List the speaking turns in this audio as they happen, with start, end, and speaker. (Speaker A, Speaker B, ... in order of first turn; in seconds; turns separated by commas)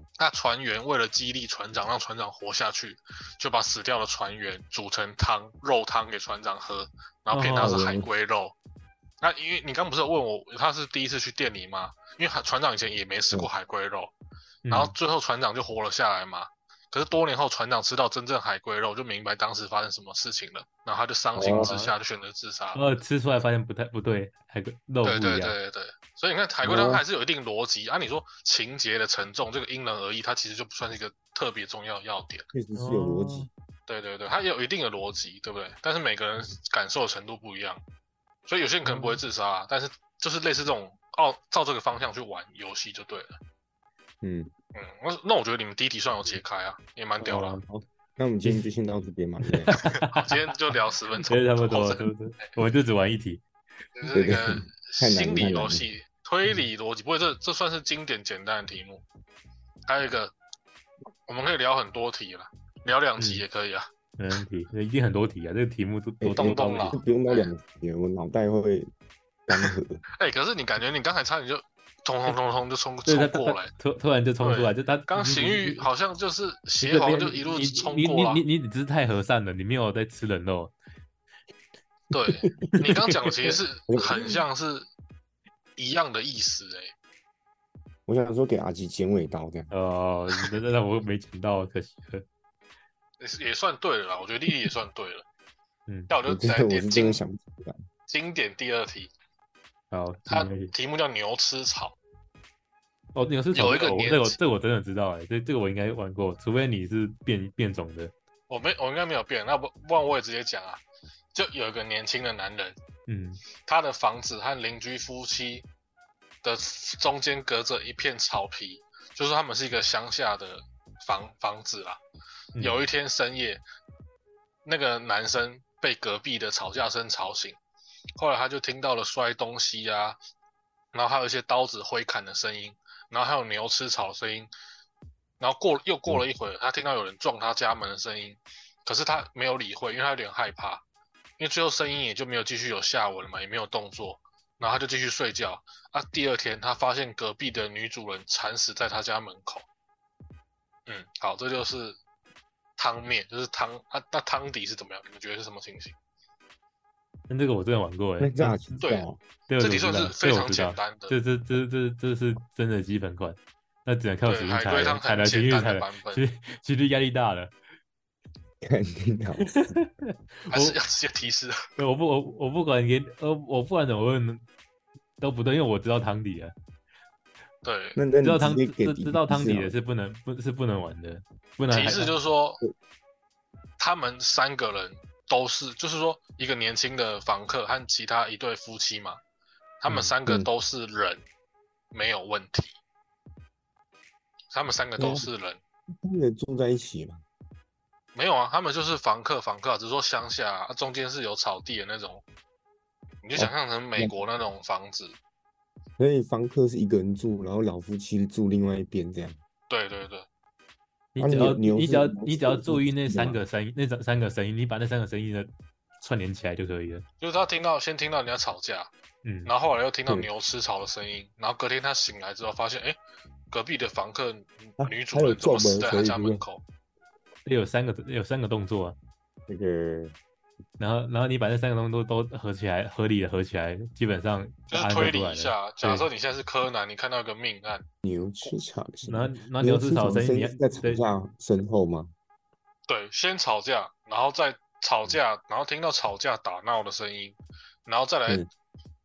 Speaker A: 0.2-8.6, Speaker B: 7.3-7.8, Speaker C: 7.6-8.1, Speaker A: 9.2-14.1, Speaker B: 14.6-14.9, Speaker A: 14.7-22.8, Speaker C: 21.4-21.7, Speaker B: 21.5-21.9, Speaker B: 22.7-25.5, Speaker A: 25.0-32.5, Speaker C: 26.6-27.0, Speaker C: 32.5-33.5, Speaker B: 32.8-33.5, Speaker A: 33.9-37.8, Speaker A: 38.5-43.4, Speaker B: 38.8-39.2, Speaker C: 44.2-44.5, Speaker A: 44.7-47.6, Speaker B: 47.2-47.6, Speaker C: 47.7-49.7, Speaker B: 49.4-50.4, Speaker A: 49.8-52.0, Speaker B: 51.3-53.4, Speaker A: 54.0-59.0, Speaker C: 54.1-55.8, Speaker A: 59.9-60.3, Speaker A: 61.3-63.9, Speaker B: 63.2-63.4, Speaker B: 64.2-67.0, Speaker C: 66.2-68.9, Speaker A: 66.3-67.5, Speaker C: 69.5-70.0, Speaker A: 70.2-73.7, Speaker B: 73.0-75.9, Speaker A: 74.4-78.4, Speaker B: 76.8-80.7, Speaker A: 82.1-84.9, Speaker C: 83.9-84.4, Speaker A: 85.8-86.9, Speaker C: 88.1-89.7, Speaker B: 89.7-92.2, Speaker A: 93.2-95.2, Speaker A: 96.1-97.2, Speaker C: 96.2-97.8, Speaker A: 98.1-99.1, Speaker B: 99.9-100.7, Speaker A: 100.3-102.0, Speaker B: 103.1-108.1, Speaker A: 103.5-104.4, Speaker A: 108.5-110.8, Speaker A: 111.3-112.8, Speaker B: 113.1-113.4, Speaker A: 113.6-115.7, Speaker A: 116.4-122.0, Speaker B: 122.5-122.8, Speaker A: 122.6-123.6, Speaker A: 124.6-127.6, Speaker A: 128.2-130.2, Speaker A: 130.9-134.5, Speaker A: 135.4-140.8, Speaker A: 141.4-149.7, Speaker A: 150.9-152.0, Speaker A: 152.8-155.9, Speaker B: 157.3-158.6, Speaker C: 158.2-159.2, Speaker A: 158.8-159.1, Speaker B: 159.5-167.5, Speaker A: 159.6-161.2, Speaker A: 164.2-166.2, Speaker C: 168.6-169.6, Speaker B: 169.4-170.8, Speaker A: 170.5-171.6, Speaker B: 171.8-174.4, Speaker B: 175.2-176.5, Speaker A: 177.6-178.0, Speaker C: 177.9-179.7, Speaker B: 178.2-182.1, Speaker A: 181.7-182.6, Speaker A: 183.8-189.2, Speaker A: 189.8-191.2, Speaker A: 191.9-192.7, Speaker A: 194.5-195.6, Speaker C: 195.0-195.3, Speaker C: 196.0-197.2, Speaker A: 198.1-202.2, Speaker A: 203.2-205.2, Speaker C: 203.3-204.1, Speaker C: 206.0-209.4, Speaker A: 209.7-210.3, Speaker B: 211.1-217.0, Speaker C: 211.2-213.4, Speaker A: 217.2-218.9, Speaker B: 219.2-219.5, Speaker A: 219.4-223.0, Speaker A: 223.5-226.6, Speaker C: 224.8-226.4, Speaker B: 227.4-228.9, Speaker C: 229.5-230.1, Speaker B: 230.8-236.1, Speaker A: 234.7-237.8, Speaker C: 238.0-242.1, Speaker B: 239.1-241.0, Speaker A: 242.9-248.4